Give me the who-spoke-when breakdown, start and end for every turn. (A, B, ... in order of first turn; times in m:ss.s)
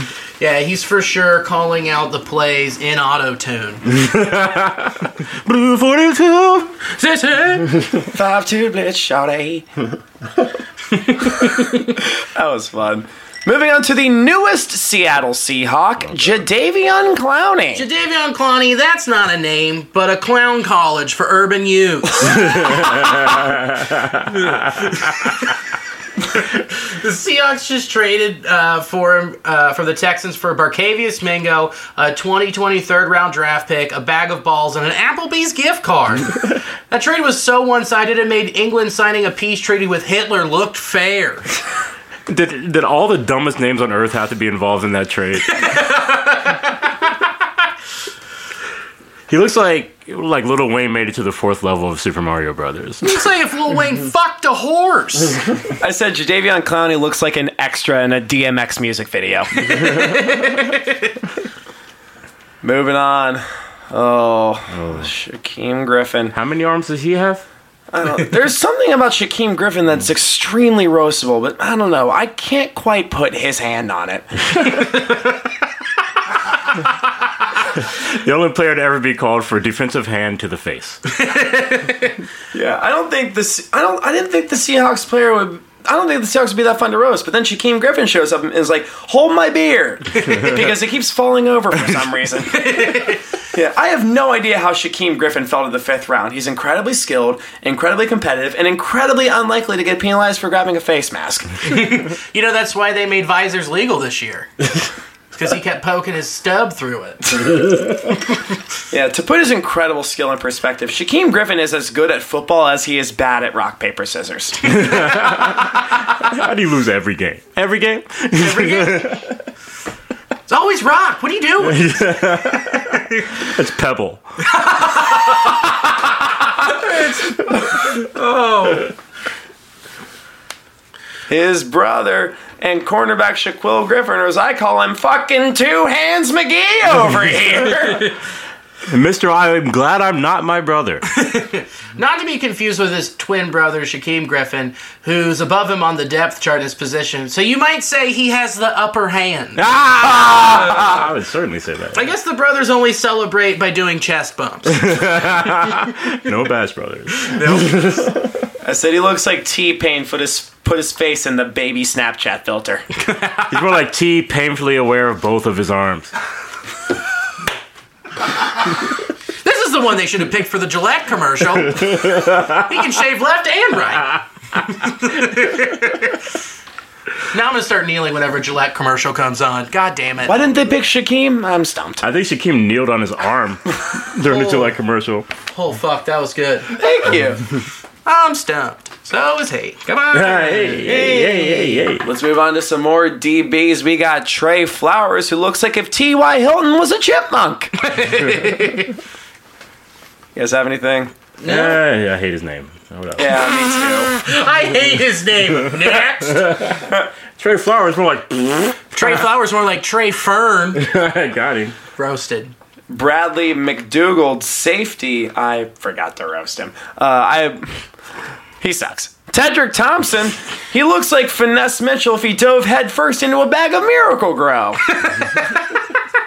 0:00.4-0:03.8 A
0:03.9-0:06.8 B
0:06.9-0:07.7 A
0:08.1-0:09.7 C
0:12.2-0:17.8 C
0:16.1-0:16.4 B
0:17.7-0:23.3 A
0:22.8-0:23.1 B
0:24.5-0:25.4 A
0:26.3-0:41.5 A
0:42.3-0:45.8 B
0:45.5-0:46.8 A
0:49.3-0:53.2 B
0:53.0-0:55.4 A
0:55.8-0:59.8 C
1:00.0-1:00.5 A
1:02.6-1:06.3 C
1:04.7-1:05.1 B
1:06.3-1:07.4 B
1:07.9-1:14.8 C
1:17.9-1:21.0 B
1:21.2-1:22.1 A
1:22.5-1:41.6 C
1:32.6-1:33.2 A
1:41.6-1:44.5 A
1:45.3-1:47.3 A
1:48.9-1:54.8 C
1:54.7-1:59.3 B
1:58.4-1:59.2 A
2:00.5-2:01.9 A
2:01.6-2:04.2 B
2:04.5-2:05.4 A
2:06.6-2:08.9 A
2:11.3-2:18.1 C
2:18.8-2:21.0 B
2:21.1-2:29.6 A
2:29.6-2:32.0 B
2:30.5-2:30.9 A
2:31.9-2:34.9 A
2:34.7-2:38.2 B
2:37.2-2:38.0 A
2:38.6-2:42.8 C
2:43.0-2:43.5 A
2:43.5-2:46.1 B
2:49.4-2:56.2 A
2:57.3-3:00.4 A
3:00.2-3:02.0 C
3:02.0-3:05.3 B
3:04.3-3:04.7 A
3:05.5-3:06.7 A
3:06.7-3:07.4 C
3:08.0-3:11.9 A
3:10.1-3:12.0 B
3:12.0-3:18.0 C
3:17.8-3:18.9 A
3:20.3-3:21.1 C
3:21.4-3:21.8 A
3:21.4-3:23.6 B
3:23.2-3:24.1 C
3:23.7-3:26.5 A
3:25.9-3:29.2 B
3:28.9-3:30.8 A
3:30.8-3:31.8 B
3:32.0-3:32.5 A
3:32.9-3:37.8 C
3:38.6-3:45.4 C